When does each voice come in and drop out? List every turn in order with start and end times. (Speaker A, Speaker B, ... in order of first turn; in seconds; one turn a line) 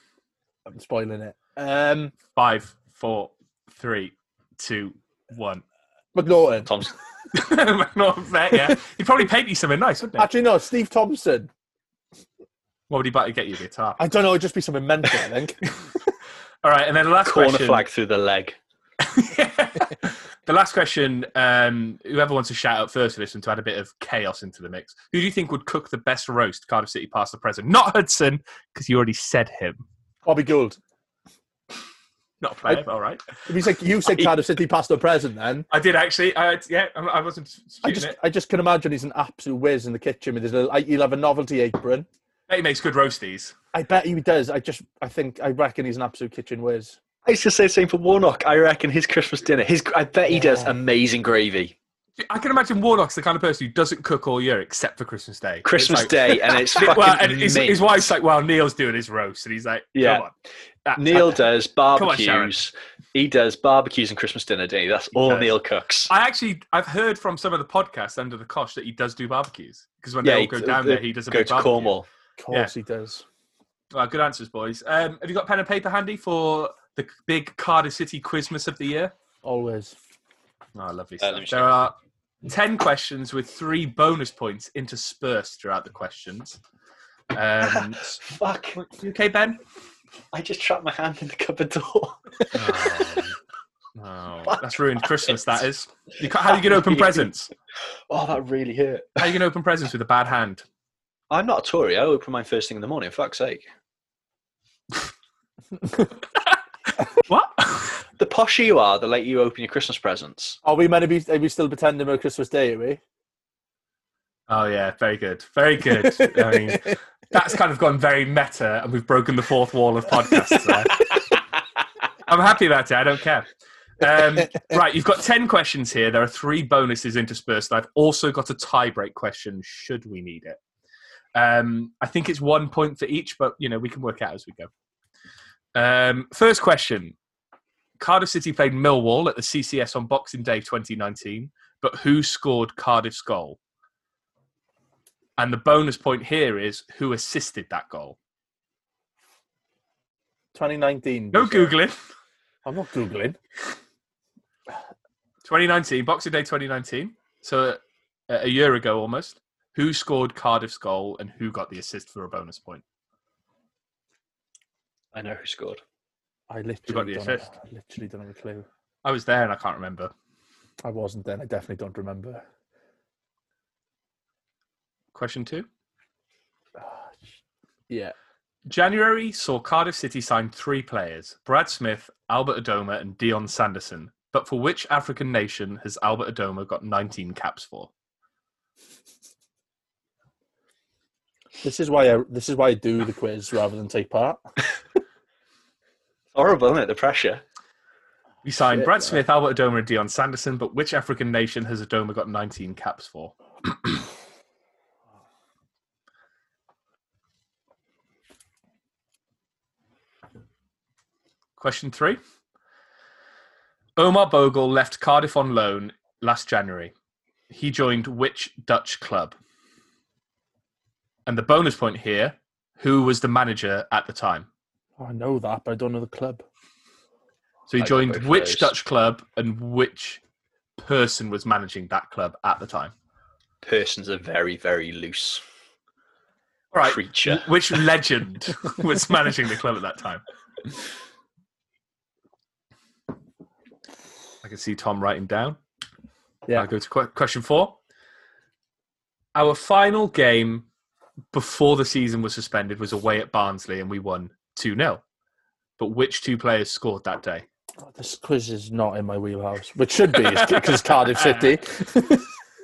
Speaker A: 0.7-2.1
Speaker B: 2.3-5.6
Speaker A: 6.1-6.7
Speaker C: 6.7-6.9
Speaker B: 7.3-10.3
Speaker A: 10.2-11.5
Speaker B: 12.9-14.0
Speaker A: 14.0-15.9
Speaker B: 16.6-17.8
Speaker C: 17.2-18.6
Speaker B: 19.0-29.8
Speaker A: 30.2-30.8
Speaker B: 32.4-33.3
Speaker A: 33.5-35.6
Speaker B: 35.7-38.1
Speaker A: 37.8-42.1
Speaker B: 42.5-43.5
Speaker A: 43.7-47.0
Speaker C: 47.2-51.7
Speaker A: 50.3-50.7
Speaker B: 52.2-60.3
Speaker C: 55.6-57.9
Speaker C: 59.9-60.3
Speaker B: 60.9-62.5
Speaker C: 61.0-66.1
Speaker B: 65.2-65.5
Speaker B: 66.1-71.9
Speaker C: 70.2-72.1
Speaker A: 72.4-73.2
Speaker B: 73.9-79.1
Speaker A: 79.4-80.0
Speaker B: 80.7-86.6
Speaker C: 81.2-81.8
Speaker B: 87.3-88.2
Speaker C: 87.6-88.8
Speaker B: 88.8-89.6
Speaker C: 90.3-93.2
Speaker B: 92.5-93.3
Speaker B: 93.9-97.5
Speaker C: 94.5-95.6
Speaker C: 96.4-97.3
Speaker C: 98.1-99.3
Speaker B: 99.2-100.6
Speaker C: 101.3-103.7
Speaker B: 107.2-108.0
Speaker C: 108.2-110.6
Speaker A: 110.6-113.0
Speaker B: 114.5-121.1
Speaker A: 116.3-116.6
Speaker B: 122.2-123.5
Speaker B: 124.0-130.6
Speaker B: 131.3-134.7
Speaker B: 135.7-137.1
Speaker B: 138.0-143.6
Speaker B: 145.4-148.2
Speaker A: 150.5-151.7
Speaker B: 151.3-151.9
Speaker A: 152.6-153.4
Speaker B: 155.4-162.8
Speaker C: 165.1-165.8
Speaker A: 166.5-168.7
Speaker B: 166.9-167.5
Speaker B: 169.0-170.1
Speaker A: 170.8-172.4
Speaker B: 175.1-175.7
Speaker A: 176.8-177.2
Speaker A: 177.9-178.1
Speaker B: 178.7-187.9
Speaker A: 191.6-194.4
Speaker C: 196.3-197.4
Speaker B: 198.4-204.0
Speaker A: 198.6-199.2
Speaker B: 211.6-212.2
Speaker B: 214.0-216.9
Speaker B: 217.5-219.3
Speaker B: 221.2-224.5
Speaker A: 225.0-226.4
Speaker B: 227.7-230.2
Speaker C: 227.8-228.7
Speaker B: 230.8-232.9
Speaker C: 233.6-235.4
Speaker B: 236.7-240.2
Speaker C: 236.8-237.8
Speaker B: 244.4-245.6
Speaker B: 246.5-247.8
Speaker B: 249.3-250.7
Speaker B: 251.3-255.0
Speaker B: 255.8-257.4
Speaker A: 257.8-262.3
Speaker B: 260.2-261.6